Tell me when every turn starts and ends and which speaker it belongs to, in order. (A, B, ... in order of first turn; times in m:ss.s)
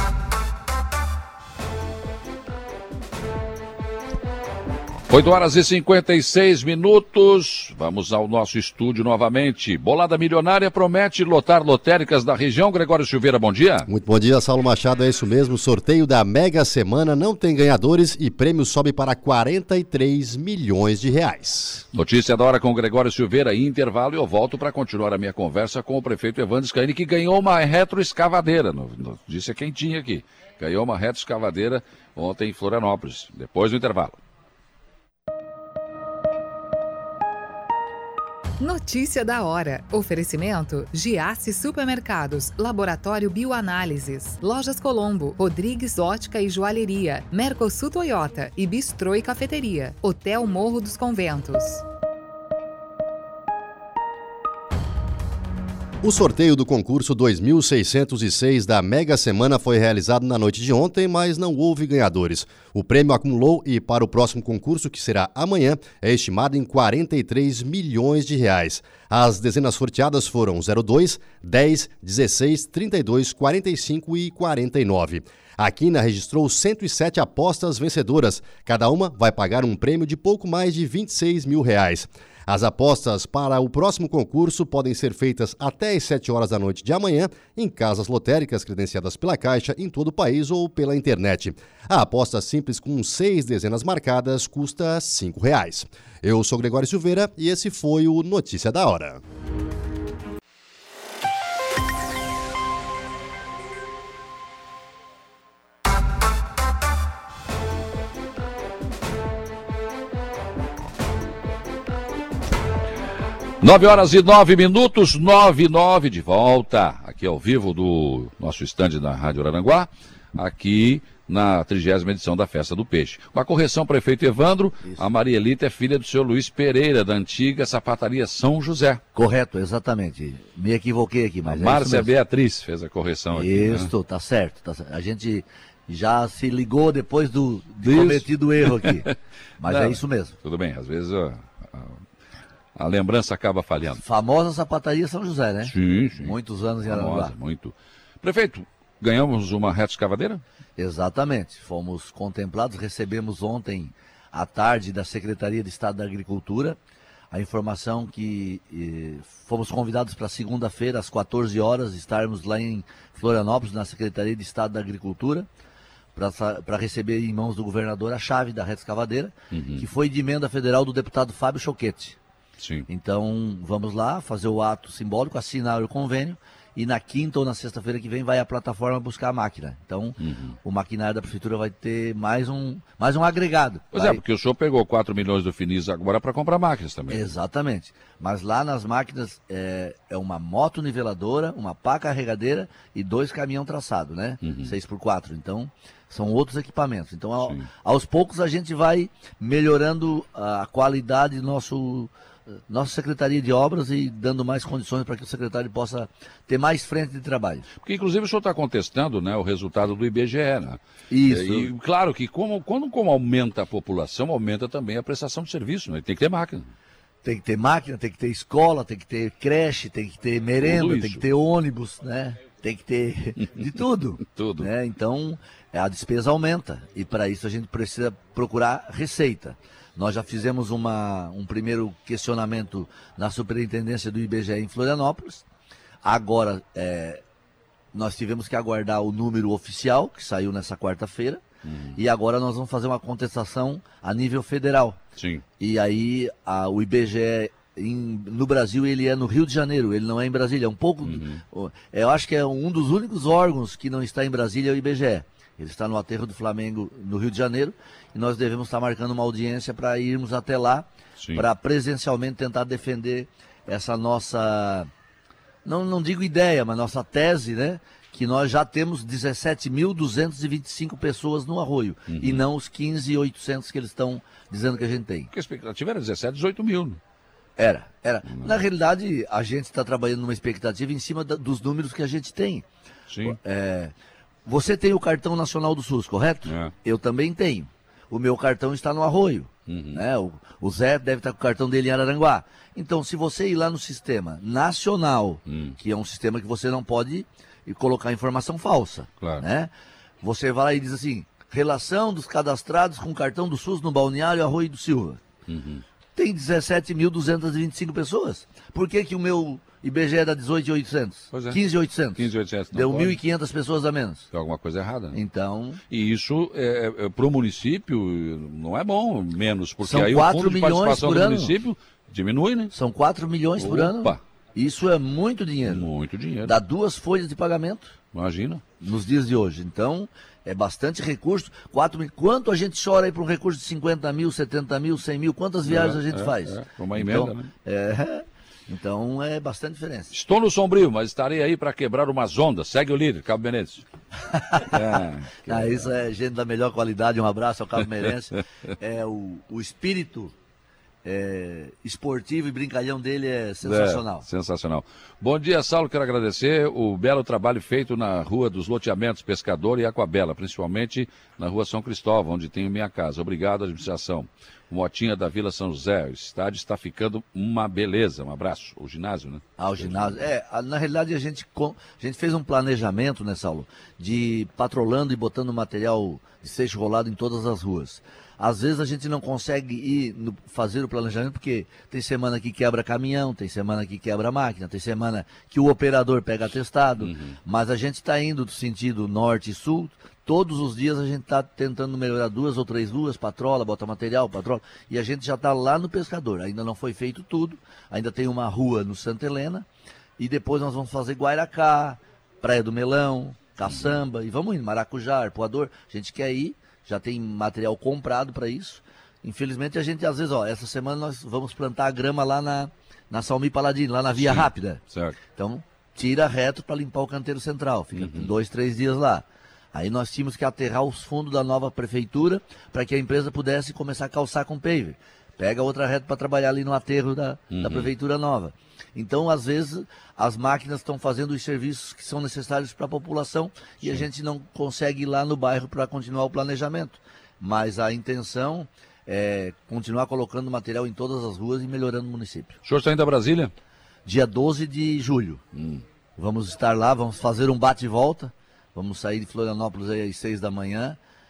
0:05.1-0:13.9 A
0:13.9-0:21.8 B
0:21.9-0:34.2 A
0:38.6-0:51.8 C
0:56.0-1:39.2 B
1:53.6-2:09.0 A
2:09.1-2:12.1 D
2:11.4-2:13.9 A
2:13.3-2:19.1 D
2:17.8-2:19.1 A
2:19.6-2:20.4 D
2:19.6-2:22.0 A
2:22.8-2:24.0 A
2:24.0-2:27.3 D
2:25.6-2:30.4 A
2:30.8-2:36.8 D
2:37.3-2:45.5 D
2:46.1-2:52.2 D
2:49.5-2:49.9 A
2:52.6-2:52.9 A
2:52.9-3:04.2 D
3:00.2-3:00.6 A
3:03.9-3:07.3 A
3:07.1-3:22.1 D
3:14.4-3:14.7 A
3:17.4-3:17.7 A
3:22.7-3:27.6 D
3:27.7-3:36.7 A
3:31.1-3:31.7 D
3:37.2-3:55.4 D
3:40.6-3:41.2 A
3:44.2-3:44.7 A
3:56.0-3:57.2 D
3:57.9-4:01.4 D
4:01.6-4:02.0 A
4:02.0-4:05.0 D
4:05.2-4:05.4 A
4:05.6-4:24.9 D
4:11.0-4:11.4 A
4:21.2-4:21.4 A
4:25.6-4:35.3 D
4:32.1-4:32.4 A
4:35.3-4:37.0 A
4:37.6-4:42.6 D
4:38.2-4:38.6 A
4:43.1-4:43.4 A
4:43.2-4:43.9 D
4:44.4-4:59.7 D
4:46.4-4:46.7 A
4:49.7-4:50.0 A
4:55.4-4:55.8 A
4:59.2-4:59.4 A
5:00.2-5:05.2 D
5:05.5-5:05.8 A
5:06.1-5:14.3 D
5:11.3-5:11.6 A
5:12.1-5:13.2 A
5:14.3-5:15.2 A
5:15.1-5:15.8 D
5:15.9-5:22.7 A
5:19.8-5:21.5 D
5:22.7-5:25.9 D
5:23.6-5:24.2 A
5:25.6-5:26.6 A
5:26.4-5:28.0 D
5:28.1-5:28.6 A
5:28.8-5:40.1 D
5:35.6-5:37.5 A
5:40.1-5:43.8 A
5:44.2-5:50.3 D
5:44.7-5:45.9 A
5:47.8-5:48.1 A
5:51.0-5:54.2 D
5:53.6-6:10.3 A
6:09.6-6:39.7 D
6:27.0-6:27.4 A
6:40.2-7:22.6 D
6:43.6-6:44.0 A
6:54.1-6:55.2 A
6:57.9-6:58.3 A
7:07.5-7:07.9 A
7:22.6-7:23.5 A
7:24.0-7:25.4 D
7:25.5-7:25.8 A
7:26.2-7:31.0 D